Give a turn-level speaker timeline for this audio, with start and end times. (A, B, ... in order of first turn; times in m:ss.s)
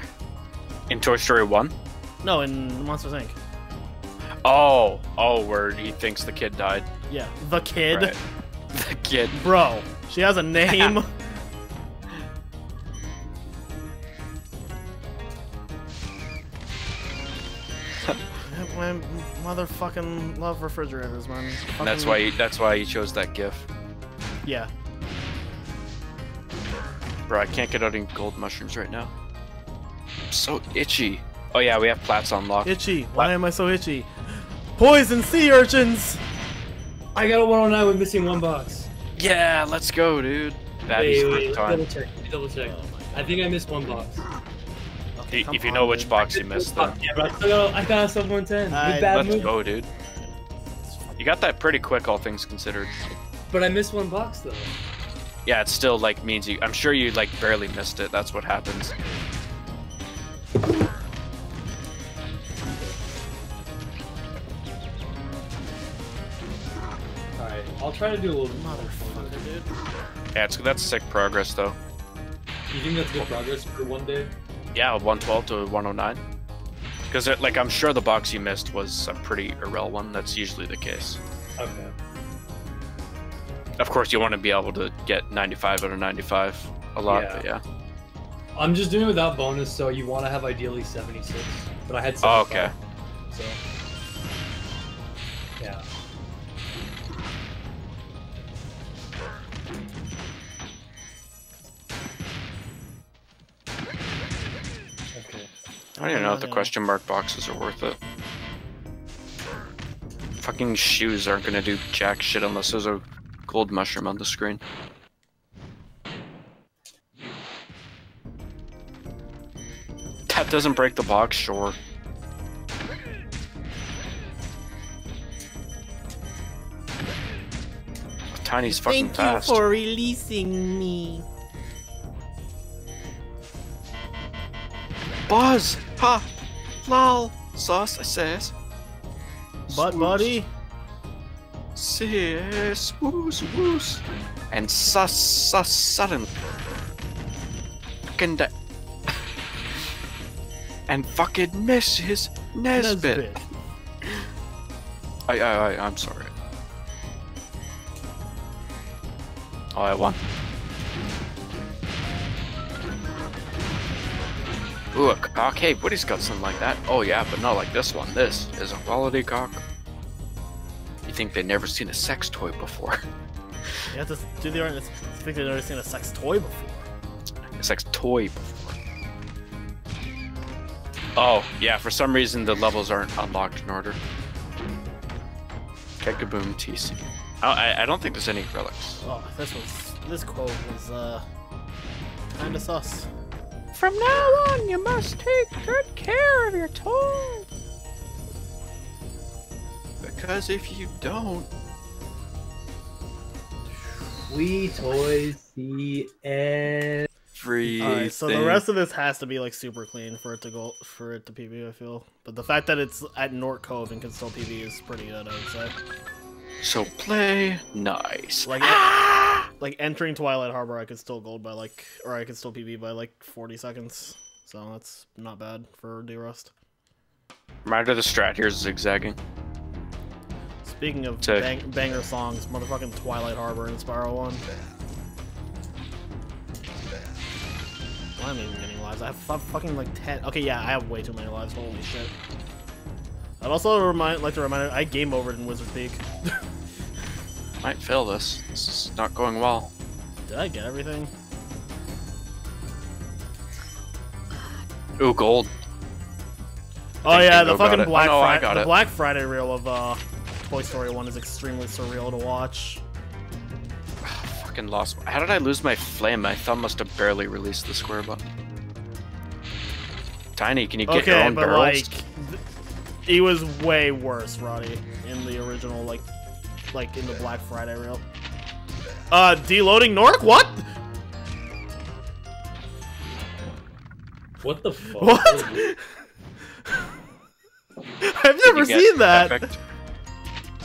0:00.9-0:01.7 A
0:02.2-0:03.4 B
0:04.4-0:06.9 A
0:07.1-0:08.2 B
0:07.9-0:08.2 A
0:08.7-0:09.4 A
0:09.3-0:11.1 B
0:10.7-0:11.0 A
0:18.4-0:22.2 B
0:21.8-0:23.7 A
0:24.4-0:24.7 B
0:27.3-0:29.1 A
0:30.3-0:33.3 A
0:32.6-0:36.2 B
0:37.2-0:38.9 C
0:39.2-0:41.9 A
0:40.9-0:44.2 C
0:42.6-0:43.4 B
0:45.2-0:46.2 B
0:45.3-0:47.0 A
0:46.3-0:49.6 C
0:48.7-0:50.3 B
0:49.1-0:49.9 A
0:51.2-0:52.9 A
0:53.5-0:54.8 C
0:55.5-0:58.9 A
1:07.4-1:09.6 C
1:08.5-1:09.7 B
1:10.4-1:11.8 A
1:12.7-1:14.3 C
1:14.8-1:16.2 A
1:17.1-1:21.2 A
1:21.6-1:21.9 C
1:23.8-1:27.6 A
1:27.1-1:27.4 C
1:28.6-1:32.7 C
1:32.2-1:32.7 A
1:33.3-1:33.6 C
1:35.6-1:35.9 C
1:45.1-1:45.5 C
1:46.0-1:46.7 B
1:46.0-1:48.0 A
1:50.4-1:54.6 A
2:00.3-2:01.8 A
2:08.3-2:09.6 A
2:08.7-2:11.2 B
2:15.3-2:16.2 A
2:16.8-2:18.5 A
2:19.7-2:20.4 A
2:19.7-2:20.5 B
2:21.8-2:26.3 A
2:28.1-2:28.5 A
2:30.9-2:33.3 A
2:32.7-2:33.4 B
2:35.3-2:36.3 A
2:39.8-2:40.2 A
2:44.9-2:49.6 A
2:51.1-2:53.0 A
2:53.9-2:56.9 B
2:57.5-2:58.8 A
3:01.2-3:04.0 A
3:06.0-3:09.0 A
3:09.0-3:11.2 B
3:12.3-3:13.1 B
3:13.8-3:17.5 A
3:20.0-3:21.5 A
3:24.3-3:27.1 C
3:27.4-3:28.6 A
3:27.7-3:35.8 B
3:36.6-3:39.5 A
3:38.5-3:38.9 B
3:39.5-3:46.5 B
3:47.6-3:49.2 A
3:50.6-3:54.4 B
3:51.2-3:51.5 A
3:58.2-4:02.1 B
4:03.4-4:06.4 B
4:07.6-4:09.7 A
4:10.3-4:11.1 B
4:15.0-4:15.5 A
4:17.0-4:22.8 B
4:17.1-4:18.7 A
4:24.0-4:28.3 A
4:30.4-4:31.9 A
4:30.9-4:32.4 B
4:33.1-4:36.1 B
4:36.7-4:38.0 B
4:39.1-4:40.7 B
4:44.4-4:45.7 C
4:44.9-4:45.8 B
4:48.0-4:49.5 B
4:48.4-4:49.6 A